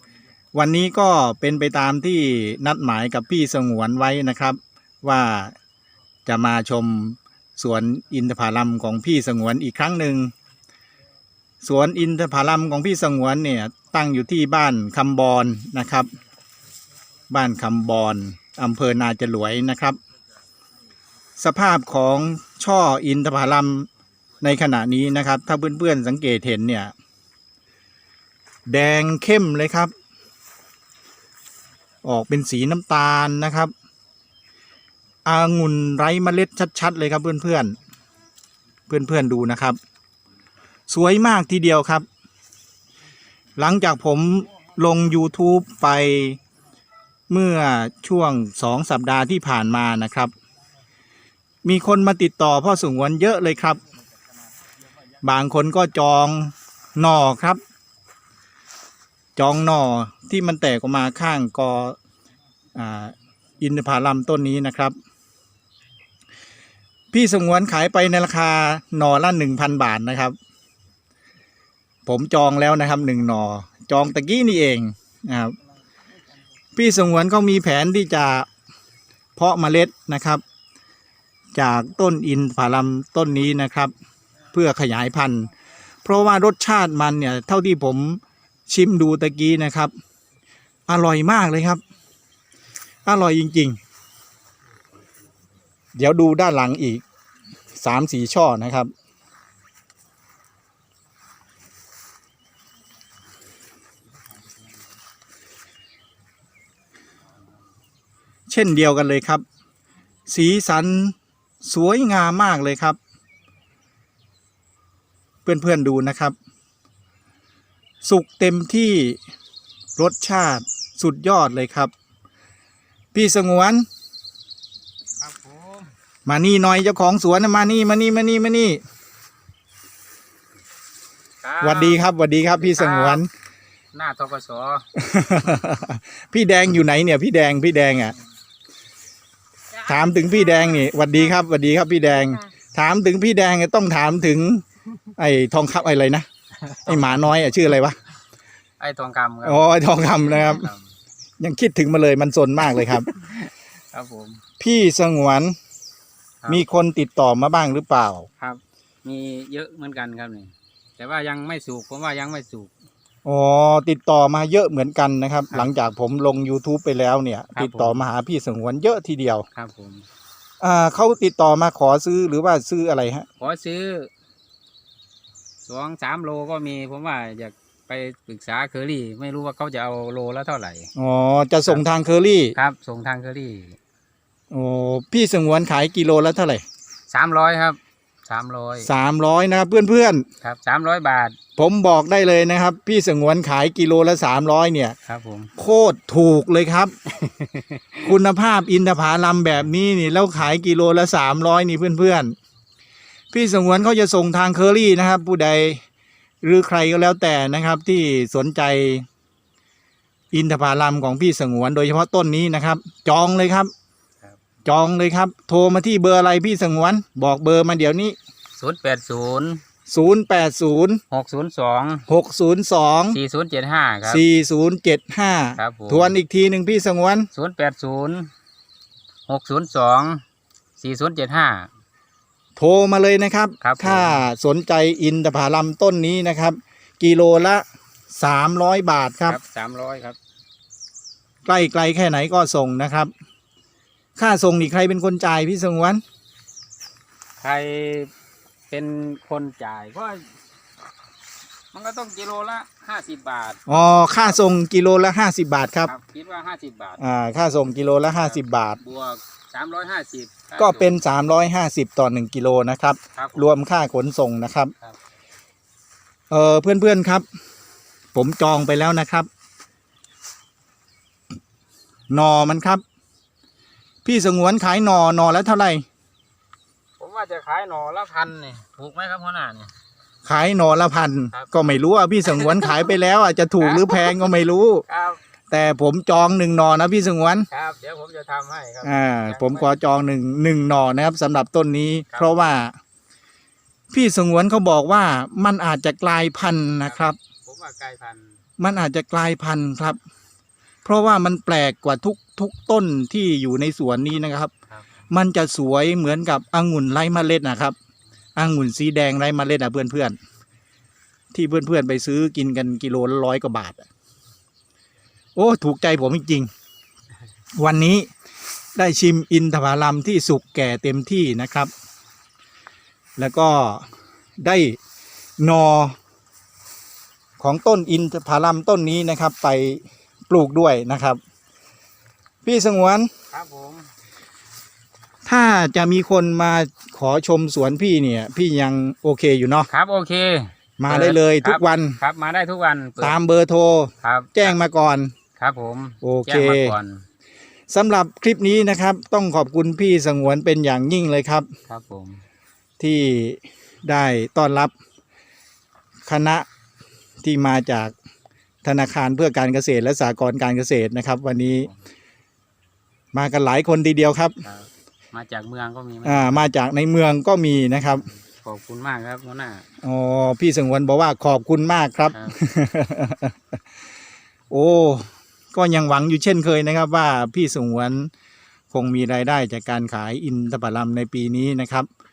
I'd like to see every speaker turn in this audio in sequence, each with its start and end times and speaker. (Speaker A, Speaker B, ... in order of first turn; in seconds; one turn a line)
Speaker A: 0.6-5.5
Speaker A: 6.3-10.3
Speaker A: 11.6-16.1
Speaker A: 17.3-20.0
Speaker A: 21.4-23.9
Speaker A: 24.4-26.9
Speaker A: 28.7-29.9
Speaker A: 32.0-33.7
Speaker A: 35.3-37.8
Speaker A: 38.9-39.8
Speaker A: 40.9-42.1
Speaker A: 43.6-46.4
Speaker A: 47.3-50.3
Speaker A: 51.6-53.8
Speaker A: 55.2-57.6
Speaker A: 59.4-62.0
Speaker A: 62.8-65.0
Speaker A: 67.1-70.4
Speaker A: 72.1-75.6
Speaker A: 76.8-78.5
Speaker A: 79.4-80.4
Speaker A: 81.5-83.9
Speaker A: 84.5-85.5
Speaker A: 86.0-89.9
Speaker A: 90.9-91.8
Speaker A: 93.1-93.8
Speaker A: 96.0-97.0
Speaker A: 97.8-98.9
Speaker A: 108.5-109.4
Speaker A: 110.3-113.0
Speaker A: 115.5-116.4
Speaker A: 118.0-119.2
Speaker A: 120.0-121.9
Speaker A: 123.1-123.9
Speaker B: 125.2-125.9
Speaker A: 126.3-128.8
Speaker B: 131.4-132.0
Speaker A: 131.6-133.3
Speaker B: 132.6-133.2
Speaker B: 133.9-134.8
Speaker A: 134.9-138.1
Speaker A: 139.8-144.6
Speaker A: 145.2-146.3
Speaker B: 146.7-147.3
Speaker A: 146.8-148.0
Speaker B: 148.8-150.9
Speaker A: 149.4-150.7
Speaker A: 151.4-153.1
Speaker B: 152.6-154.4
Speaker A: 154.6-155.6
Speaker A: 156.5-158.3
Speaker B: 158.4-162.7
Speaker A: 163.2-169.5
Speaker B: 167.6-168.1
Speaker B: 169.5-170.1
Speaker A: 170.6-173.3
Speaker B: 173.4-174.1
Speaker B: 175.7-180.9
Speaker A: 181.0-182.6
Speaker B: 182.6-183.8
Speaker A: 184.5-186.6
Speaker B: 187.1-188.9
Speaker A: 188.8-190.3
Speaker B: 190.4-191.4
Speaker A: 191.6-195.0
Speaker B: 195.1-195.5
Speaker A: 195.6-196.9
Speaker B: 197.1-198.0
Speaker A: 198.0-202.3
Speaker A: 203.3-205.8
Speaker A: 206.4-209.1
Speaker A: 210.3-213.7
Speaker A: 214.7-218.2
Speaker B: 218.6-219.6
Speaker A: 219.9-221.0
Speaker B: 221.1-222.1
Speaker A: 222.1-223.2
Speaker B: 223.1-224.2
Speaker A: 224.1-227.3
Speaker B: 225.6-226.2
Speaker B: 227.3-228.3
Speaker B: 229.3-230.2
Speaker B: 230.8-231.7
Speaker A: 232.6-239.4
Speaker B: 233.6-234.2
Speaker B: 239.3-240.2
Speaker A: 241.5-243.1
Speaker A: 244.2-246.0
Speaker B: 247.4-248.1
Speaker B: 248.7-250.3
Speaker B: 251.7-254.3
Speaker A: 253.7-255.9
Speaker B: 255.8-257.0
Speaker A: 257.0-258.8
Speaker B: 258.2-261.0
Speaker A: 260.6-264.7
Speaker B: 263.1-263.5
Speaker A: 266.3-267.2
Speaker A: 268.1-269.3
Speaker A: 272.1-272.8
Speaker A: 274.1-275.9
Speaker B: 277.0-279.7
Speaker A: 280.2-284.9
Speaker B: 282.3-282.9
Speaker B: 283.6-284.2
Speaker B: 284.9-285.2
Speaker A: 285.5-287.5
Speaker B: 287.5-289.8
Speaker A: 288.8-292.8
Speaker B: 292.1-292.5
Speaker A: 293.9-297.2
Speaker B: 296.9-298.4
Speaker A: 298.6-300.0
Speaker A: 300.9-304.5
Speaker A: 305.1-307.8
Speaker A: 308.4-310.2
Speaker A: 311.3-313.9
Speaker A: 315.4-316.5
Speaker A: 317.6-318.1
Speaker A: 318.8-321.7
Speaker A: 323.2-323.9
Speaker A: 324.4-324.8
Speaker A: 325.4-326.0
Speaker A: 327.4-331.2
Speaker A: 332.4-333.1
Speaker B: 333.3-333.9
Speaker A: 335.3-339.7
Speaker B: 339.7-343.2
Speaker A: 340.8-342.0
Speaker A: 343.0-345.1
Speaker B: 344.0-344.6
Speaker B: 345.4-347.1
Speaker A: 346.0-346.8
Speaker A: 347.7-351.5
Speaker B: 351.7-352.2
Speaker A: 352.8-354.7
Speaker A: 356.1-356.5
Speaker A: 357.2-357.9
Speaker A: 358.6-361.7
Speaker A: 363.1-364.4
Speaker B: 364.4-366.5
Speaker A: 366.1-368.0
Speaker B: 368.0-369.6
Speaker A: 369.8-373.4
Speaker B: 372.1-372.4
Speaker A: 374.5-378.1
Speaker A: 378.7-381.9